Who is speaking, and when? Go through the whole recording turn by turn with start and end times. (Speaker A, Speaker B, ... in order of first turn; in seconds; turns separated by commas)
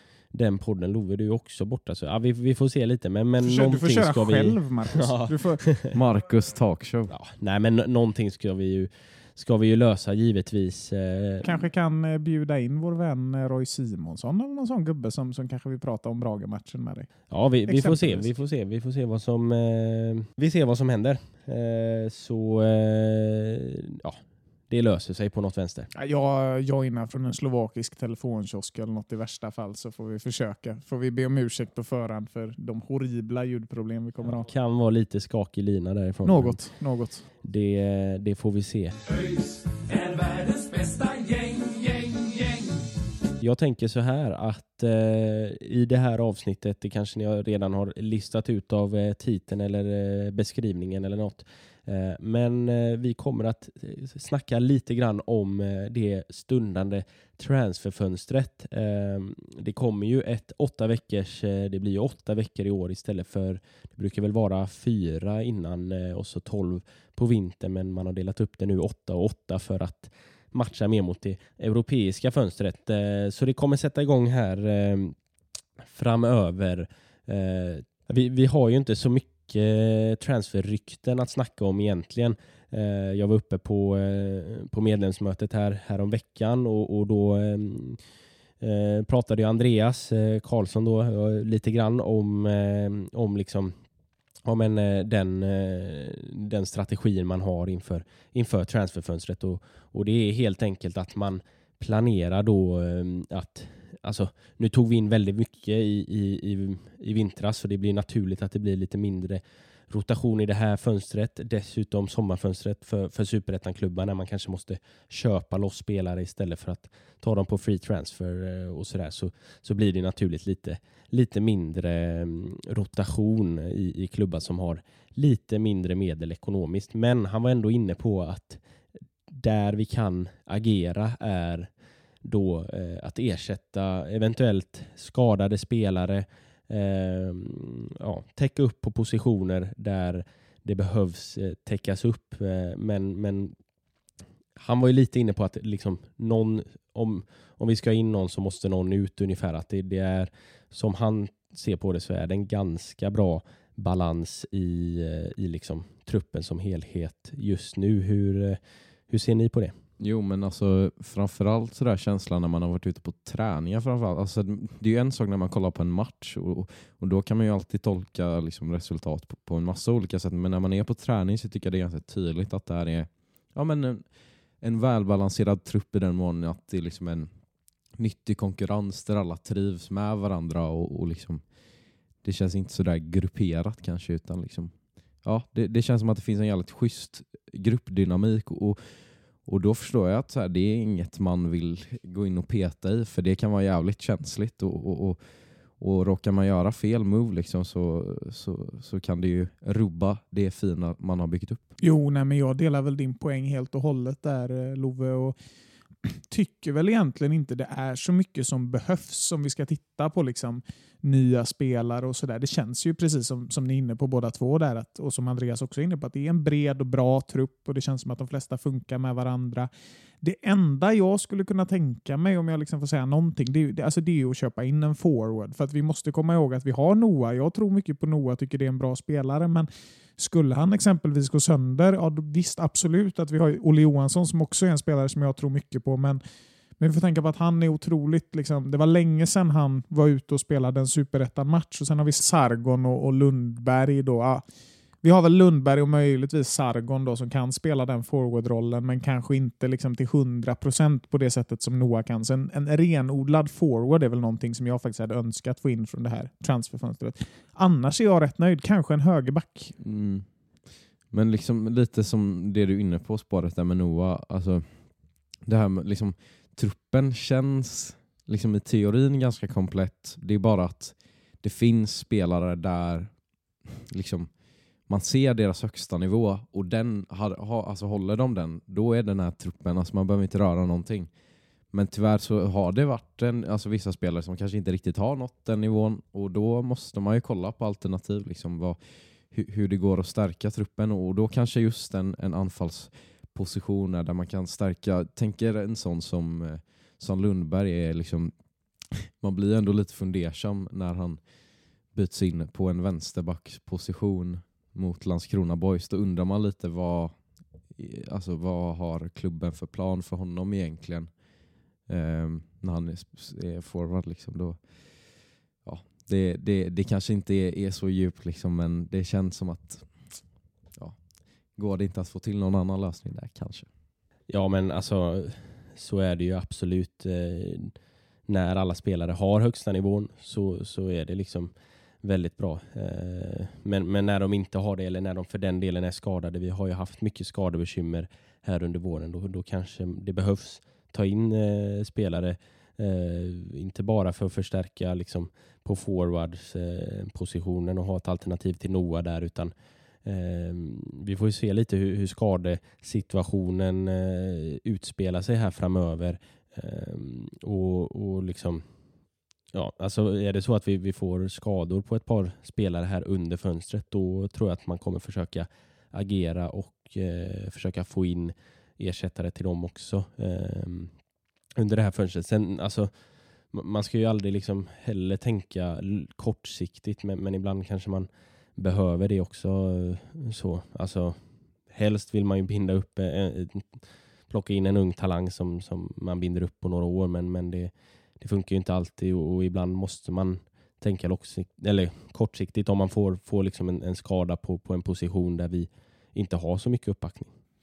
Speaker A: 0.3-6.0, Speaker B: 3.4-5.6, Speaker C: 5.9-7.1, Speaker A: 7.1-11.6, Speaker B: 11.4-18.3, Speaker A: 17.3-24.2, Speaker A: 24.7-25.9, Speaker B: 25.9-34.5, Speaker A: 34.2-36.6, Speaker B: 36.2-37.2, Speaker A: 37.4-38.9, Speaker D: 39.0-42.9, Speaker A: 43.4-75.2, Speaker A: 75.9-88.0, Speaker A: 88.6-93.8, Speaker A: 94.4-128.6, Speaker A: 129.3-131.7, Speaker A: 132.2-143.5, Speaker A: 144.6-158.6, Speaker A: 159.1-159.8, Speaker C: 160.0-174.1, Speaker C: 174.6-177.3, Speaker C: 178.0-181.4, Speaker C: 182.2-184.7, Speaker C: 185.2-188.8, Speaker C: 189.4-195.2, Speaker C: 195.8-201.6, Speaker B: 201.8-205.3, Speaker B: 206.0-219.7, Speaker B: 220.2-236.2, Speaker B: 236.8-244.4, Speaker B: 245.0-259.8, Speaker C: 259.8-260.3, Speaker C: 261.1-264.7, Speaker C: 265.4-273.1, Speaker C: 273.9-274.3, Speaker C: 274.9-281.1, Speaker C: 281.7-288.8, Speaker C: 289.3-298.3, Speaker C: 298.9-301.2, Speaker C: 301.9-307.1, Speaker C: 307.7-311.1, Speaker C: 311.9-314.6, Speaker C: 315.6-319.9, Speaker C: 321.6-323.7, Speaker A: 324.3-327.7, Speaker A: 328.3-349.5, Speaker A: 350.0-358.6, Speaker A: 359.5-370.9, Speaker A: 371.6-372.9, Speaker A: 373.5-397.3